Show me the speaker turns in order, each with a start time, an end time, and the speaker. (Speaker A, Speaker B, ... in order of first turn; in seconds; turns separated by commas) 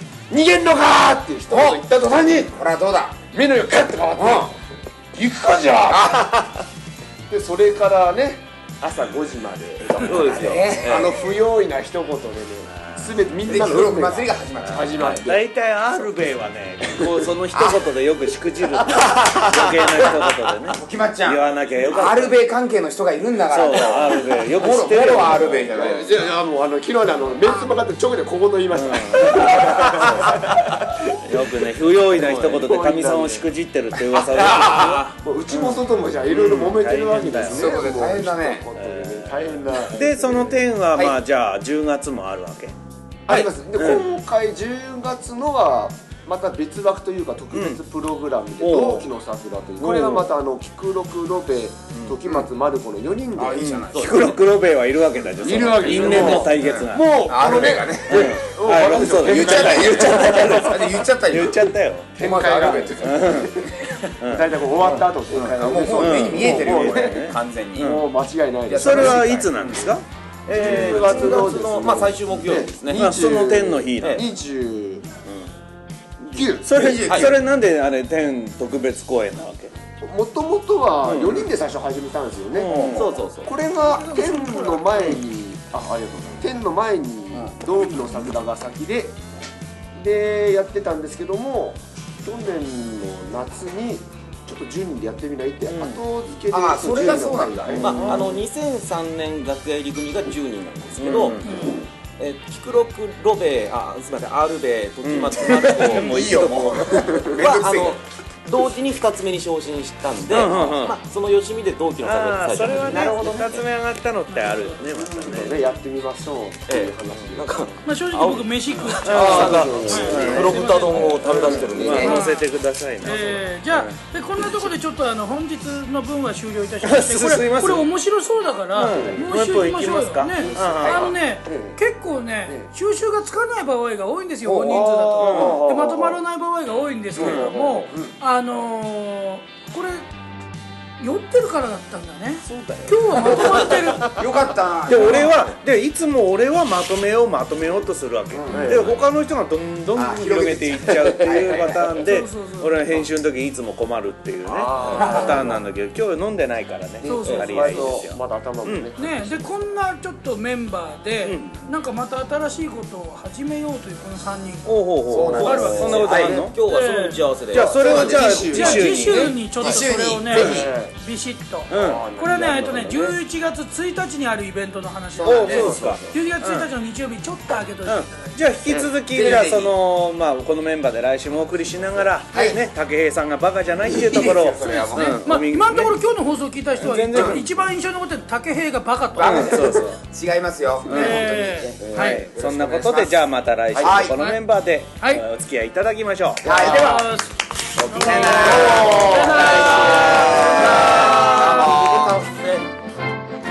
Speaker A: 0.3-2.5, Speaker B: 1.5-1.8, Speaker B: 2.4-3.2, Speaker A: 3.3-4.6, Speaker B: 4.2-4.5, Speaker A: 5.1-6.3, Speaker B: 5.9-6.4, Speaker A: 7.3-15.4, Speaker C: 10.0-11.2, Speaker B: 10.0-11.1, Speaker D: 12.7-13.6, Speaker B: 13.5-14.9, Speaker D: 14.6-22.4, Speaker A: 16.9-17.2, Speaker B: 17.5-17.8, Speaker B: 20.7-26.1, Speaker D: 23.5-25.8, Speaker A: 25.7-31.1, Speaker D: 28.7-30.3, Speaker D: 31.2-37.9, Speaker C: 32.1-32.8, Speaker A: 32.2-33.5, Speaker A: 34.3-40.6, Speaker C: 34.4-34.9, Speaker B: 37.4-38.7, Speaker D: 38.7-42.8, Speaker A: 43.3-53.7, Speaker D: 43.3-44.1, Speaker D: 47.5-47.8, Speaker D: 48.6-49.1, Speaker D: 49.8-50.3, Speaker D: 51.9-52.2, Speaker B: 53.4-54.3, Speaker D: 53.6-62.2, Speaker C: 53.9-54.4, Speaker A: 55.4-60.9, Speaker C: 55.5-56.6, Speaker B: 55.5-58.4, Speaker B: 59.0-63.4, Speaker A: 62.2-69.7, Speaker D: 63.0-63.5, Speaker D: 64.2-65.4, Speaker B: 65.3-68.0, Speaker D: 66.0-68.1, Speaker B: 68.7-69.5, Speaker D: 68.7-70.0, Speaker C: 70.5-73.1, Speaker A: 70.5-75.1, Speaker D: 70.6-71.5, Speaker D: 72.9-74.2, Speaker D: 75.2-75.5, Speaker A: 76.2-76.7, Speaker D: 76.6-79.7, Speaker B: 76.7-77.3, Speaker C: 77.0-77.3, Speaker A: 80.0-89.2, Speaker D: 81.0-81.5, Speaker D: 82.5-83.2, Speaker C: 82.7-83.5, Speaker E: 83.8-84.9, Speaker A: 90.0-98.3, Speaker D: 95.7-96.0, Speaker B: 96.5-98.0, Speaker C: 97.0-101.4, Speaker D: 97.7-98.4, Speaker D: 101.0-101.7, Speaker E: 101.4-101.8, Speaker C: 102.2-113.7, Speaker D: 105.0-106.8, Speaker B: 105.5-108.0, Speaker A: 107.1-107.4, Speaker D: 110.3-111.0, Speaker D: 112.0-115.6, Speaker B: 112.8-113.4, Speaker E: 114.3-114.8, Speaker A: 115.2-117.8, Speaker C: 116.7-122.2, Speaker E: 117.8-121.3, Speaker D: 119.0-120.5, Speaker A: 119.1-122.2, Speaker D: 121.2-124.7, Speaker E: 121.9-140.1, Speaker D: 126.8-127.9, Speaker D: 128.7-131.1, Speaker A: 128.9-129.3, Speaker A: 130.4-131.8, Speaker B: 130.6-131.1, Speaker B: 134.5-134.7, Speaker A: 134.5-136.2, Speaker D: 135.2-135.6, Speaker A: 137.2-138.1, Speaker B: 137.2-138.1, Speaker E: 141.0-144.2, Speaker D: 142.4-143.6, Speaker B: 143.1-145.4, Speaker D: 144.9-158.9, Speaker B: 148.3-148.9, Speaker A: 148.4-149.0, Speaker B: 149.9-152.0, Speaker E: 151.8-152.8, Speaker A: 154.4-155.6, Speaker C: 154.8-155.3, Speaker B: 154.9-155.5, Speaker A: 157.0-159.7, Speaker E: 157.0-157.9, Speaker C: 157.3-157.8, Speaker E: 159.0-167.2, Speaker D: 161.2-161.6, Speaker D: 164.7-166.6, Speaker B: 165.1-166.4, Speaker A: 165.2-165.9, Speaker C: 165.4-168.5, Speaker D: 167.5-169.4, Speaker A: 167.5-169.2, Speaker B: 167.7-170.7, Speaker E: 168.4-178.2, Speaker A: 170.3-170.9, Speaker D: 171.7-172.1, Speaker A: 171.7-173.2, Speaker A: 175.2-176.2, Speaker D: 175.2-176.7, Speaker B: 175.4-176.0, Speaker D: 177.8-186.0, Speaker B: 179.0-179.8, Speaker B: 182.3-182.6, Speaker B: 183.8-185.3, Speaker E: 184.2-189.6, Speaker D: 186.8-187.4, Speaker B: 187.1-187.4, Speaker B: 189.2-193.2, Speaker D: 189.2-190.0, Speaker D: 190.9-191.3, Speaker E: 190.9-192.2, Speaker A: 190.9-192.2, Speaker D: 191.9-196.8, Speaker B: 193.7-194.2, Speaker A: 193.8-194.1, Speaker E: 195.0-195.3, Speaker B: 196.4-197.1, Speaker A: 196.4-197.0, Speaker E: 196.5-200.8, Speaker B: 197.8-202.2, Speaker D: 198.1-198.5, Speaker A: 198.2-199.8, Speaker C: 199.3-202.7, Speaker D: 199.9-201.7, Speaker A: 200.8-201.8